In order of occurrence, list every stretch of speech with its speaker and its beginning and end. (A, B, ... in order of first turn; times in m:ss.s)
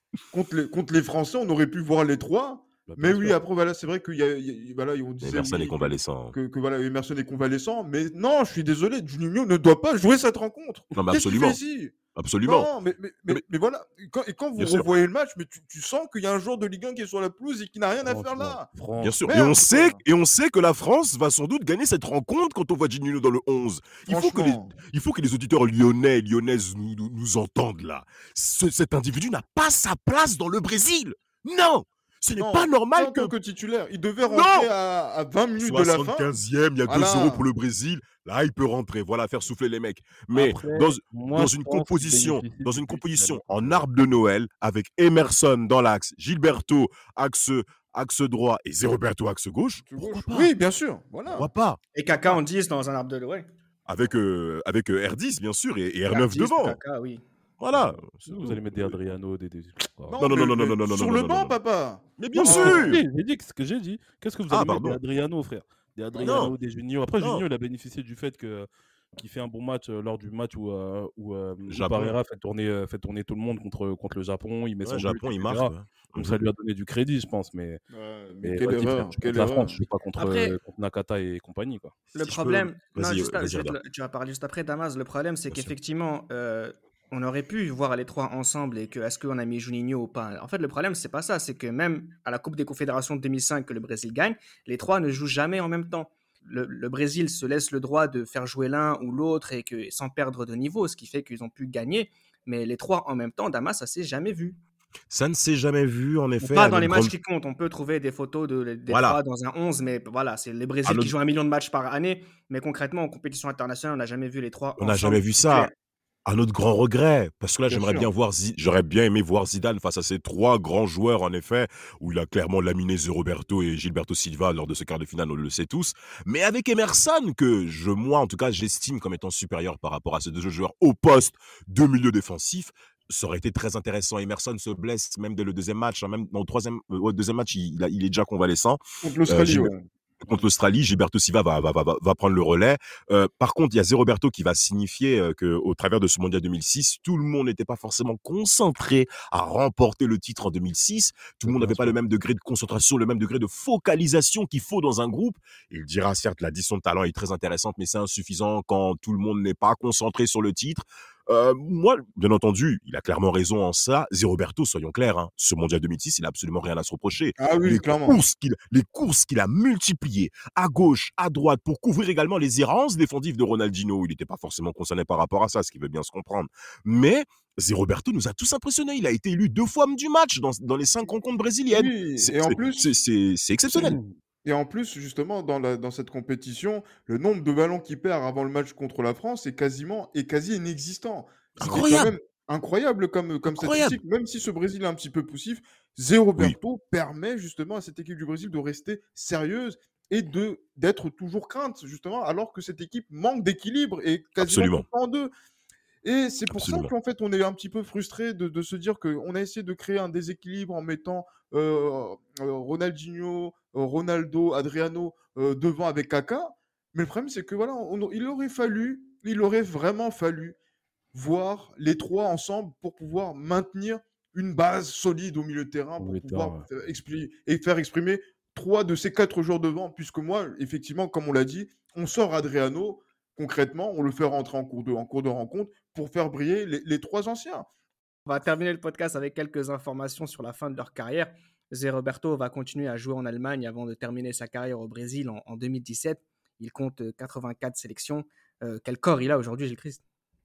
0:00.3-0:18.7 A
0:02.9-0:03.4 B
0:05.2-0:06.4 C
0:10.9-0:11.6 C
0:12.1-0:12.7 C
0:14.6-0:14.9 C
0:18.0-0:19.2 B
0:19.0-0:33.3 C
0:19.3-0:20.0 A
0:24.1-0:24.7 A
0:32.3-0:36.3 A
0:34.3-0:34.7 C
0:35.6-0:50.5 C
0:36.8-0:37.4 A
0:40.3-0:43.8 B
0:49.9-0:51.5 A
0:51.3-0:51.8 C
0:51.9-0:53.5 D
0:53.8-0:56.8 C
0:56.1-0:57.2 D
0:57.6-0:59.0 C
0:57.7-1:00.2 B
1:00.1-1:03.0 A
1:00.2-1:01.5 C
1:02.2-1:03.0 C
1:02.4-1:17.8 B
1:04.5-1:05.0 C
1:06.1-1:06.5 A
1:06.2-1:06.5 C
1:11.7-1:12.2 C
1:14.8-1:16.4 C
1:17.9-1:19.8 A
1:18.4-1:22.0 B
1:20.2-1:20.6 D
1:22.1-1:44.6 D
1:22.2-1:23.8 C
1:45.1-1:47.1 C
1:46.4-1:55.7 D
1:48.9-1:49.2 C
1:50.8-1:51.1 C
1:54.8-1:55.7 C
1:56.2-2:19.7 C
1:57.7-1:58.1 A
2:19.0-2:19.8 A
2:20.2-3:04.0 C
2:31.4-2:32.0 B
2:47.4-2:48.2 A
3:01.7-3:02.8 A
3:03.9-3:04.2 B
3:04.4-3:25.3 A
3:11.6-3:12.1 C
3:13.5-3:14.0 C
3:24.4-3:24.8 C
3:26.0-3:40.6 A
3:26.5-3:26.9 C
3:41.1-3:57.6 A
3:46.0-3:46.6 B
3:58.2-4:10.0 D